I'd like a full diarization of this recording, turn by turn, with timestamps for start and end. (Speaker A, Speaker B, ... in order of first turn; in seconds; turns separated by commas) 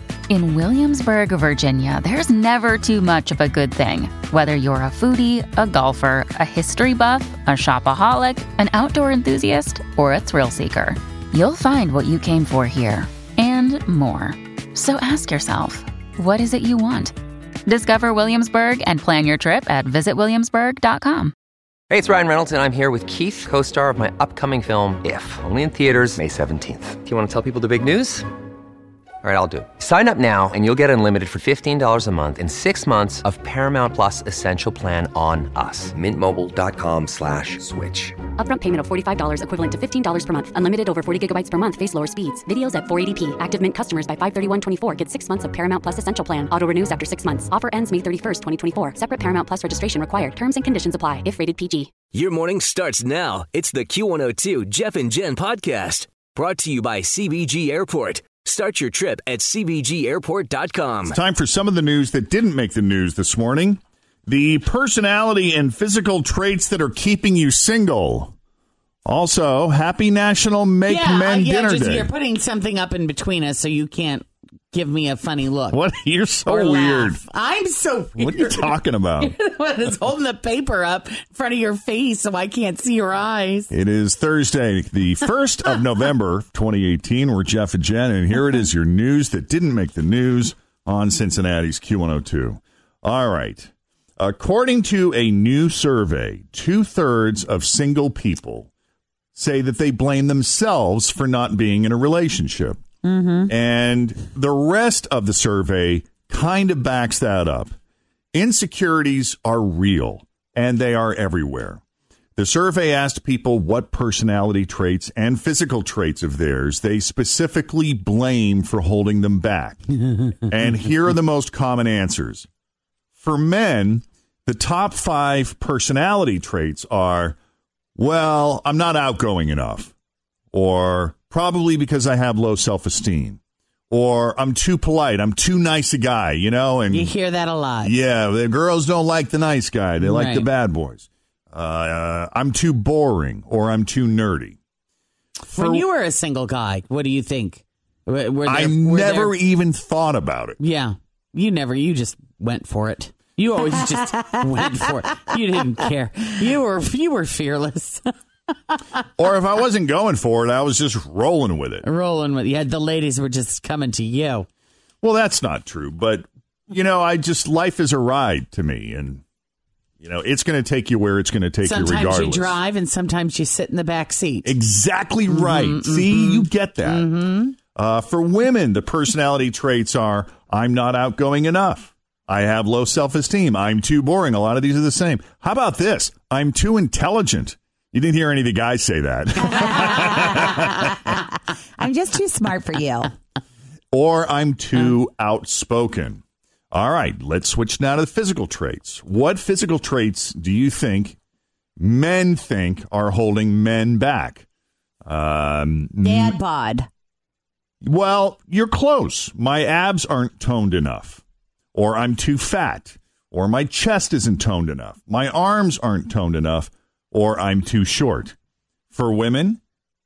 Speaker A: 0.5-2.4, Speaker B: 1.5-1.9, Speaker B: 2.4-3.1, Speaker A: 3.2-3.6, Speaker A: 4.3-13.1, Speaker B: 13.3-14.1, Speaker A: 13.6-14.3, Speaker A: 14.8-17.1, Speaker A: 17.7-21.3, Speaker C: 21.9-28.2, Speaker C: 29.2-38.1, Speaker D: 38.4-52.0, Speaker E: 52.1-61.2, Speaker F: 61.1-68.3, Speaker F: 69.0-72.1, Speaker B: 70.8-75.8, Speaker F: 75.7-77.2, Speaker B: 76.5-83.7, Speaker F: 78.2-79.3, Speaker F: 83.7-98.7, Speaker F: 99.3-102.8, Speaker G: 103.0-103.5, Speaker F: 103.5-107.7, Speaker F: 108.3-111.8, Speaker F: 112.4-122.5, Speaker F: 123.2-127.4, Speaker F: 128.0-129.9, Speaker F: 130.5-133.4, Speaker F: 133.9-137.1, Speaker B: 136.9-137.9, Speaker F: 137.8-144.6, Speaker B: 140.0-140.5, Speaker B: 145.5-149.4, Speaker F: 145.5-145.9, Speaker F: 148.5-150.6, Speaker B: 150.6-158.1, Speaker F: 159.2-161.9, Speaker B: 161.8-164.5, Speaker F: 165.0-169.2, Speaker F: 170.0-172.6, Speaker B: 171.6-174.6, Speaker F: 174.4-177.2, Speaker B: 175.3-177.6, Speaker F: 177.8-190.8, Speaker G: 189.5-191.2, Speaker G: 191.8-193.1, Speaker F: 193.9-201.2, Speaker F: 201.8-204.5, Speaker F: 205.1-206.4, Speaker G: 206.0-206.9, Speaker F: 207.8-211.2, Speaker F: 211.7-218.3, Speaker F: 218.9-219.6